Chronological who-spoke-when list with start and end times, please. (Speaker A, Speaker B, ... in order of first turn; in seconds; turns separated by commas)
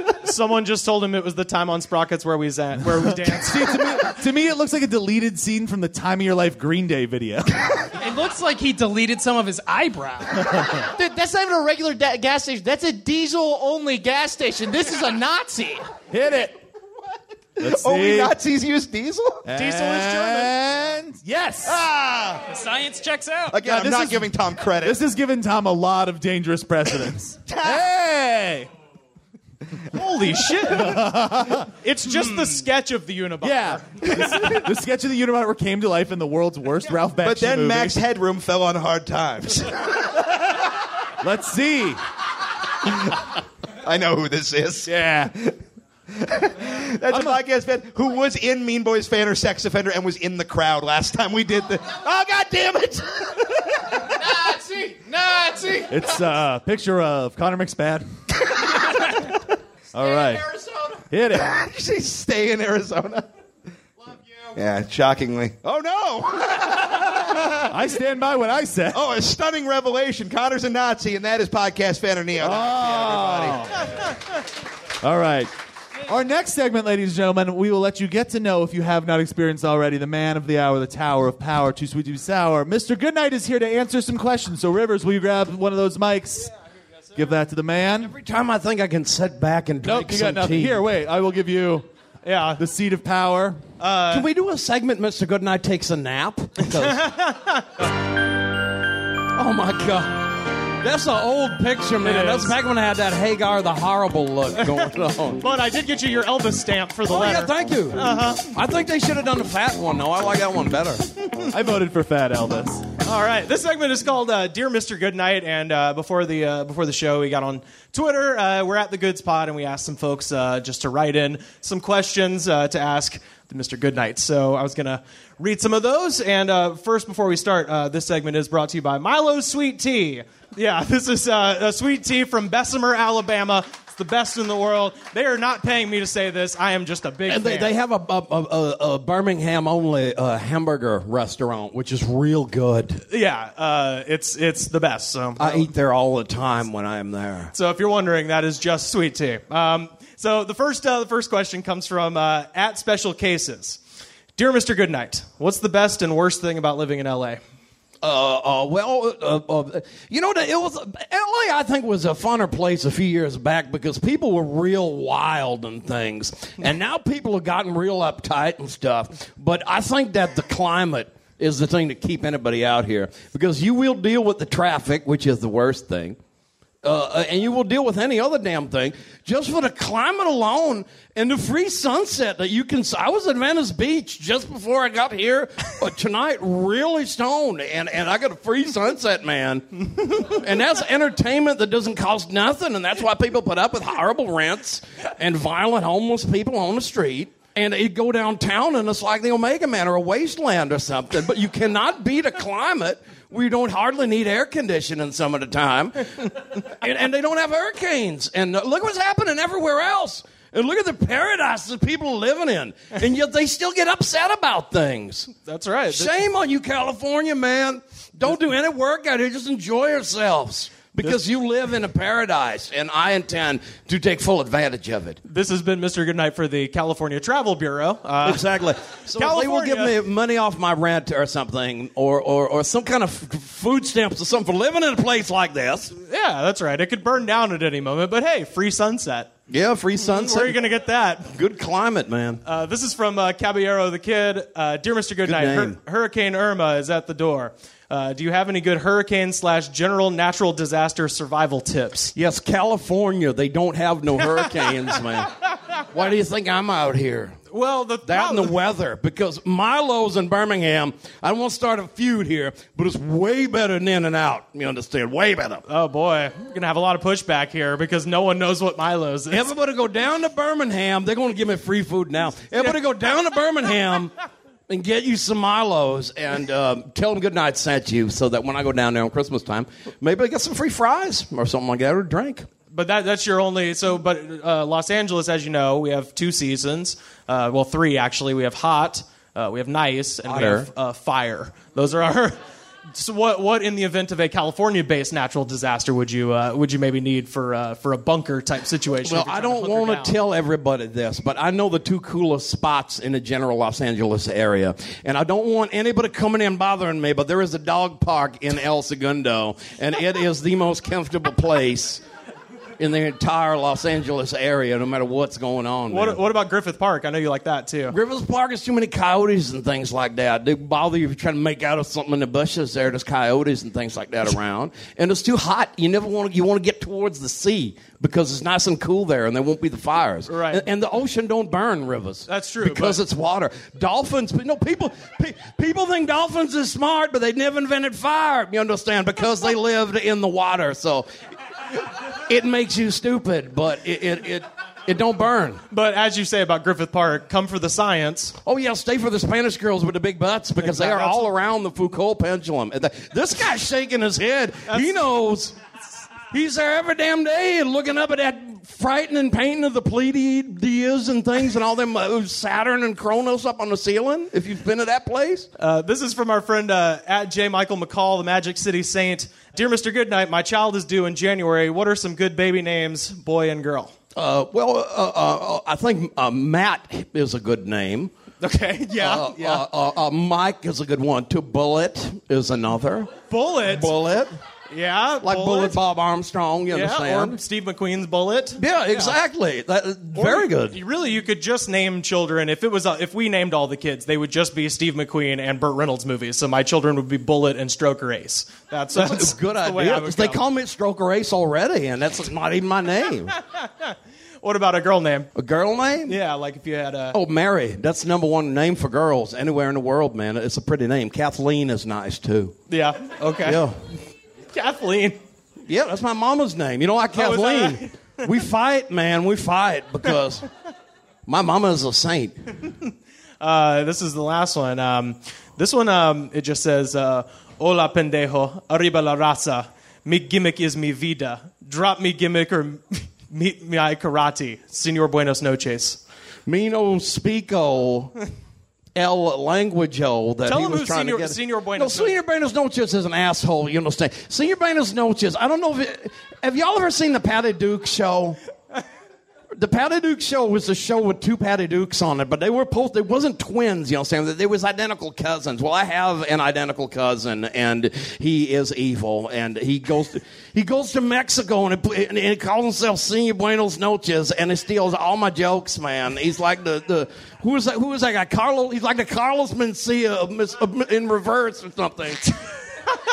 Speaker A: 0.2-4.0, Speaker B: 2.9-7.7, Speaker C: 8.0-10.7, Speaker D: 10.9-15.9, Speaker B: 16.1-16.6, Speaker E: 17.6-19.5, Speaker B: 17.6-18.4, Speaker B: 19.4-21.8, Speaker A: 19.6-20.5, Speaker E: 21.7-22.4, Speaker C: 22.5-23.6, Speaker E: 23.5-25.0, Speaker B: 23.6-28.7, Speaker E: 27.5-27.9, Speaker A: 29.9-31.1, Speaker B: 30.6-31.7, Speaker A: 31.7-34.1, Speaker C: 32.2-32.6, Speaker B: 33.4-38.0, Speaker E: 37.2-40.0, Speaker B: 41.2-42.0, Speaker E: 43.8-45.6, Speaker B: 44.9-45.3, Speaker E: 46.1-53.5, Speaker B: 47.1-47.4, Speaker D: 54.2-56.0, Speaker B: 55.9-58.0, Speaker B: 59.9-60.5, Speaker D: 60.1-60.9, Speaker B: 61.1-61.6, Speaker E: 61.3-63.3, Speaker E: 64.5-67.7, Speaker B: 67.7-69.0, Speaker E: 68.9-73.7, Speaker B: 72.4-73.9, Speaker B: 75.0-75.5, Speaker B: 76.1-86.5, Speaker B: 87.2-88.1, Speaker F: 88.0-90.8, Speaker B: 89.8-91.9, Speaker A: 92.2-92.6, Speaker B: 92.6-93.6, Speaker A: 93.8-94.3, Speaker F: 94.1-97.1, Speaker A: 96.8-97.7, Speaker F: 99.3-105.5, Speaker A: 102.0-102.5, Speaker A: 104.6-104.9, Speaker A: 105.4-108.4, Speaker F: 107.0-111.1, Speaker B: 111.5-112.9, Speaker A: 113.0-137.8, Speaker F: 137.3-143.0, Speaker A: 143.1-145.7, Speaker F: 145.4-147.5, Speaker A: 147.5-153.8, Speaker A: 154.4-157.4, Speaker F: 158.0-176.2, Speaker F: 176.8-215.3, Speaker A: 215.3-216.1, Speaker F: 215.9-225.2, Speaker A: 225.2-228.5, Speaker F: 228.2-235.9, Speaker A: 229.1-230.0, Speaker A: 236.0-239.3, Speaker F: 239.5-240.6, Speaker A: 240.0-241.3, Speaker F: 241.2-242.4, Speaker A: 242.4-252.1, Speaker F: 245.2-245.8, Speaker F: 252.2-255.3, Speaker F: 255.9-257.4, Speaker A: 257.5-258.6, Speaker F: 258.0-265.6, Speaker A: 265.7-269.5, Speaker F: 269.3-274.1, Speaker F: 274.7-282.5, Speaker A: 282.7-292.4, Speaker F: 290.2-290.7, Speaker A: 292.9-300.2, Speaker F: 299.0-312.0, Speaker F: 312.8-316.2, Speaker A: 315.9-318.0, Speaker F: 317.9-341.1, Speaker A: 330.3-330.6, Speaker A: 332.3-333.0, Speaker F: 342.3-345.6, Speaker A: 345.7-348.4, Speaker F: 348.4-355.6, Speaker A: 350.6-351.3, Speaker A: 354.7-355.1, Speaker F: 356.3-365.5, Speaker A: 365.6-373.9, Speaker F: 374.1-378.1, Speaker A: 378.4-379.6, Speaker F: 378.9-384.4, Speaker A: 383.2-383.9, Speaker A: 384.7-385.8, Speaker F: 385.2-387.4, Speaker A: 386.7-389.2, Speaker F: 388.6-390.8, Speaker A: 390.1-400.4, Speaker F: 398.9-403.3, Speaker A: 403.5-405.3, Speaker F: 405.4-406.2, Speaker A: 406.1-407.2, Speaker F: 407.1-412.6, Speaker A: 412.7-413.6, Speaker F: 413.4-413.8, Speaker A: 414.5-415.2, Speaker F: 415.7-420.5, Speaker A: 417.1-418.3, Speaker F: 421.3-422.4, Speaker A: 423.4-436.0, Speaker F: 436.5-438.1, Speaker F: 438.9-448.4, Speaker A: 440.5-442.2, Speaker F: 449.6-472.4